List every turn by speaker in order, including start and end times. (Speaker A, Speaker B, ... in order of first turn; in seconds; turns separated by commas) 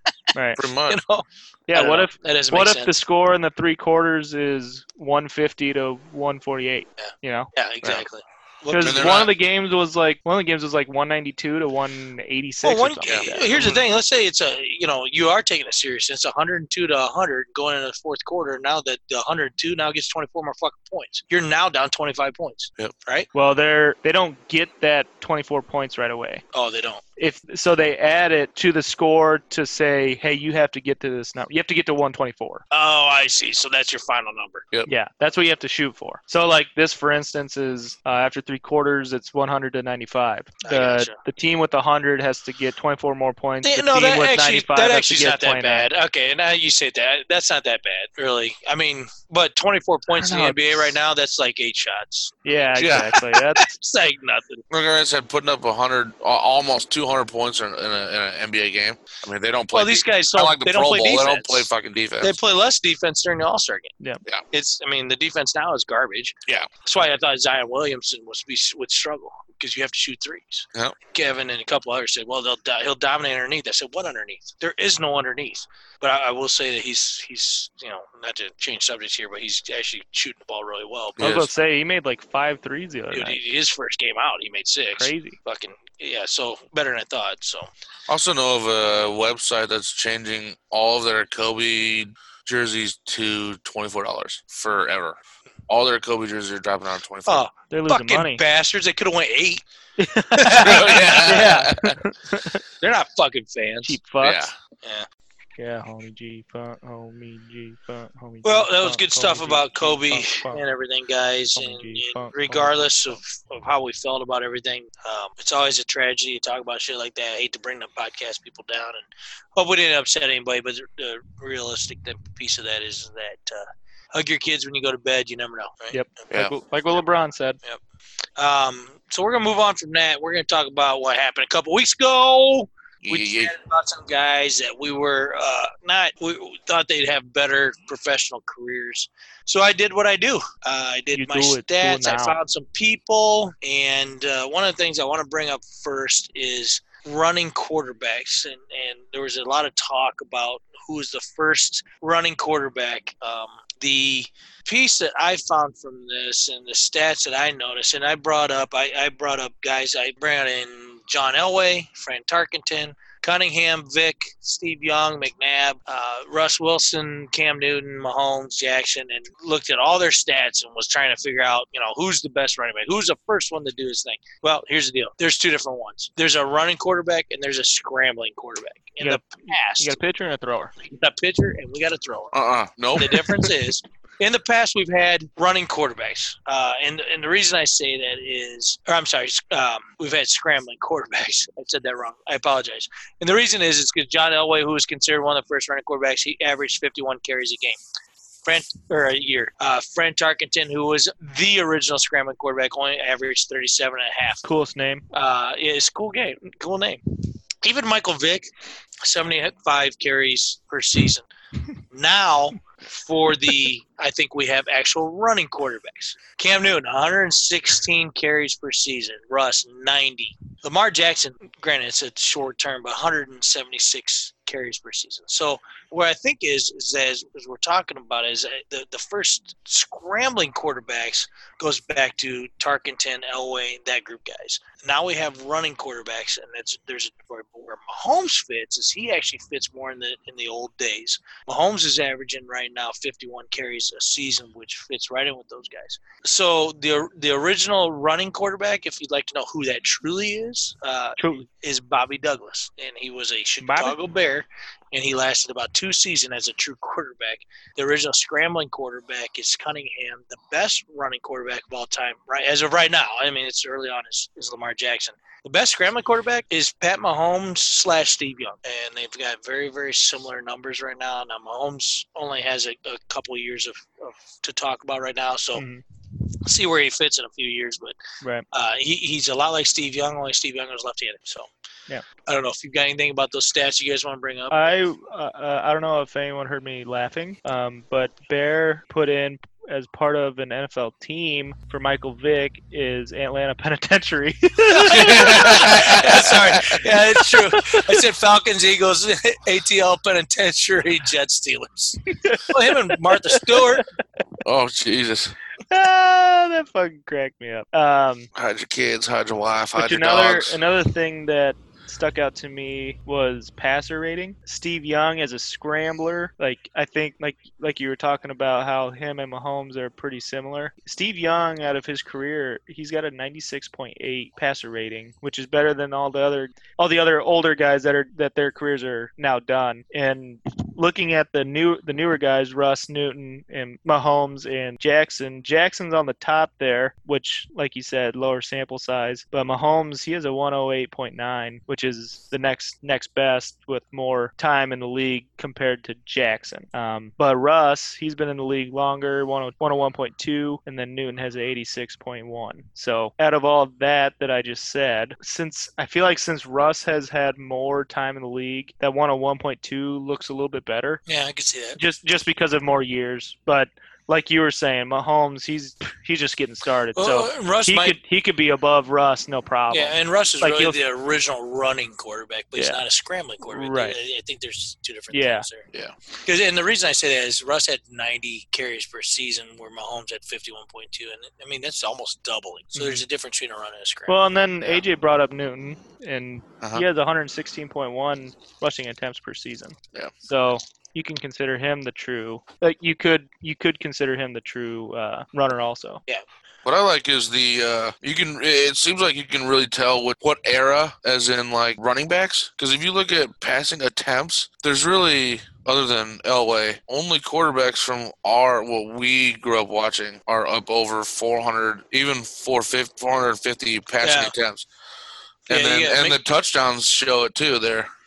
Speaker A: 0.3-0.6, Speaker B: 0.6-1.0, Speaker C: 0.9-2.9, Speaker A: 1.7-7.5, Speaker C: 7.0-9.3, Speaker A: 8.7-13.5, Speaker B: 8.8-9.3, Speaker C: 12.6-23.3, Speaker B: 13.1-13.8, Speaker A: 23.3-26.4, Speaker C: 26.5-27.0, Speaker A: 27.2-32.6, Speaker C: 32.7-34.6, Speaker A: 34.9-45.9, Speaker C: 40.6-41.1, Speaker C: 43.6-54.6, Speaker A: 50.1-50.9, Speaker A: 52.4-53.7, Speaker B: 52.8-53.1, Speaker B: 54.7-62.4, Speaker C: 59.7-61.7, Speaker C: 62.2-63.9, Speaker C: 64.5-81.2, Speaker B: 81.2-81.5, Speaker A: 81.2-83.4, Speaker C: 83.1-87.7, Speaker A: 85.0-85.4, Speaker B: 88.1-95.2, Speaker B: 95.7-97.5, Speaker C: 97.2-99.6, Speaker A: 97.7-98.4, Speaker A: 100.0-102.6, Speaker C: 100.3-101.6, Speaker B: 100.6-102.0, Speaker C: 102.8-104.0, Speaker A: 103.8-104.5, Speaker B: 104.2-104.5, Speaker A: 105.6-110.6, Speaker C: 108.4-119.0, Speaker A: 111.5-113.2, Speaker C: 119.5-126.0, Speaker A: 125.9-127.6, Speaker C: 128.4-180.0, Speaker B: 133.0-133.5, Speaker A: 141.1-142.4, Speaker A: 179.0-180.7, Speaker C: 180.8-182.4, Speaker B: 182.3-183.5, Speaker C: 182.9-197.8, Speaker C: 198.4-204.4, Speaker A: 204.4-205.0, Speaker C: 205.1-207.0, Speaker C: 207.6-208.5, Speaker C: 209.0-211.2, Speaker C: 211.9-275.6, Speaker A: 251.2-251.4, Speaker A: 253.6-253.9, Speaker A: 275.5-275.8, Speaker C: 276.4-278.0, Speaker C: 278.5-281.5, Speaker C: 282.2-284.8, Speaker A: 284.5-297.9, Speaker B: 294.8-296.8, Speaker C: 295.0-303.8, Speaker A: 302.1-303.8, Speaker B: 304.4-305.3, Speaker A: 305.7-308.3, Speaker B: 308.3-310.6, Speaker A: 309.8-361.0, Speaker C: 361.1-361.8, Speaker A: 361.8-370.8, Speaker C: 366.9-368.0, Speaker C: 369.7-375.7, Speaker A: 372.6-372.8, Speaker A: 373.5-374.0, Speaker A: 375.1-375.4, Speaker C: 376.2-384.1, Speaker A: 382.7-383.0, Speaker A: 384.1-396.0, Speaker B: 386.6-386.9, Speaker B: 396.6-414.6, Speaker C: 414.0-414.3, Speaker C: 415.5-416.2, Speaker B: 415.5-417.9